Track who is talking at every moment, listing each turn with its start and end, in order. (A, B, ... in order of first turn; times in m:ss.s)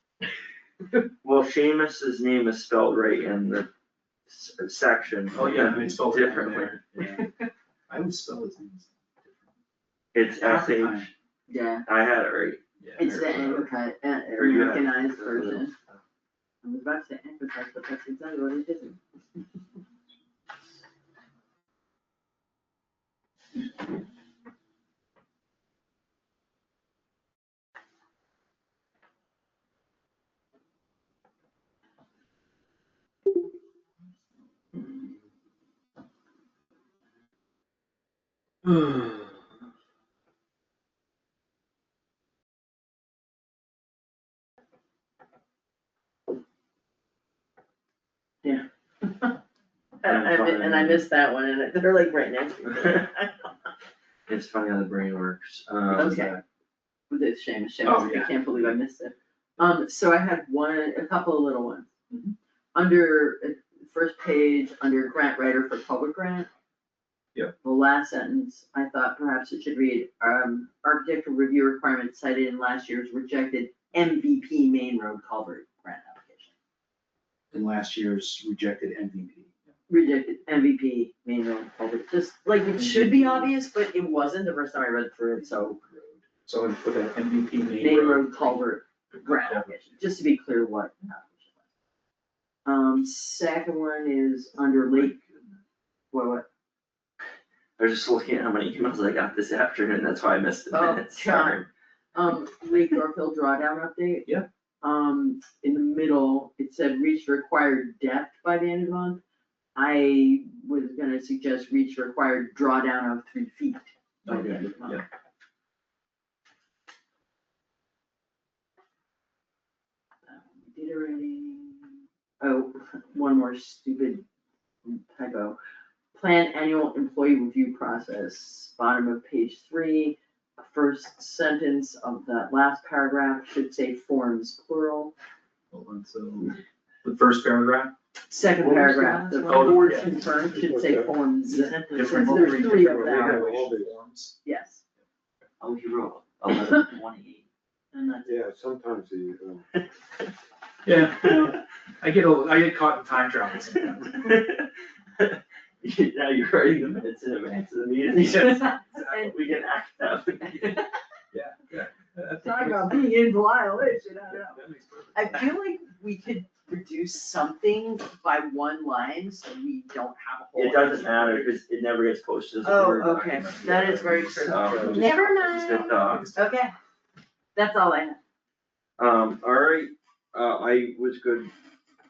0:01.2-0:03.7 A
0:04.3-0:06.8 A
0:05.3-0:07.2 B
0:07.0-0:07.2 C
0:07.9-0:09.4 B
0:10.1-0:11.1 A
0:10.3-0:11.1 B
0:11.5-0:11.8 C
0:11.9-0:13.6 A
0:12.8-0:13.5 B
0:13.0-0:15.7 C
0:14.4-0:15.6 A
0:16.6-0:19.0 C
0:48.4-0:49.4 C
0:50.0-0:53.3 C
0:50.0-0:51.0 A
0:54.3-0:56.4 A
0:55.9-0:56.4 C
0:57.1-1:01.9 C
0:57.8-0:58.3 B
1:02.1-1:02.4 B
1:02.7-1:06.5 C
1:07.6-1:16.5 C
1:17.5-1:19.5 B
1:19.9-1:25.8 C
1:22.8-1:23.5 B
1:25.8-1:28.6 B
1:27.8-1:31.5 C
1:29.1-1:30.0 B
1:32.7-1:35.2 C
1:36.1-1:36.5 C
1:37.8-1:41.7 A
1:40.7-1:44.3 C
1:44.8-1:49.2 C
1:49.8-1:55.0 C
1:54.2-1:55.0 B
2:00.3-2:04.2 C
2:04.8-2:05.6 C
2:06.1-2:15.1 C
2:15.7-2:17.9 B
2:18.3-2:23.4 C
2:18.6-2:20.1 A
2:19.5-2:20.2 B
2:20.5-2:21.1 D
2:21.4-2:22.7 A
2:21.9-2:24.4 B
2:23.0-2:23.9 D
2:24.4-2:24.8 C
2:25.6-2:27.4 A
2:27.9-2:28.3 C
2:28.2-2:29.7 D
2:30.8-2:34.3 B
2:31.2-2:31.6 A
2:34.1-2:40.9 A
2:38.4-2:39.4 C
2:38.5-2:39.1 B
2:41.3-2:43.1 B
2:42.4-2:44.6 C
2:44.2-2:45.5 B
2:45.1-2:51.5 C
2:50.6-2:56.3 A
2:52.6-2:56.7 C
2:53.6-2:55.2 D
2:55.9-2:56.4 B
2:57.6-2:58.2 C
2:59.0-3:01.5 A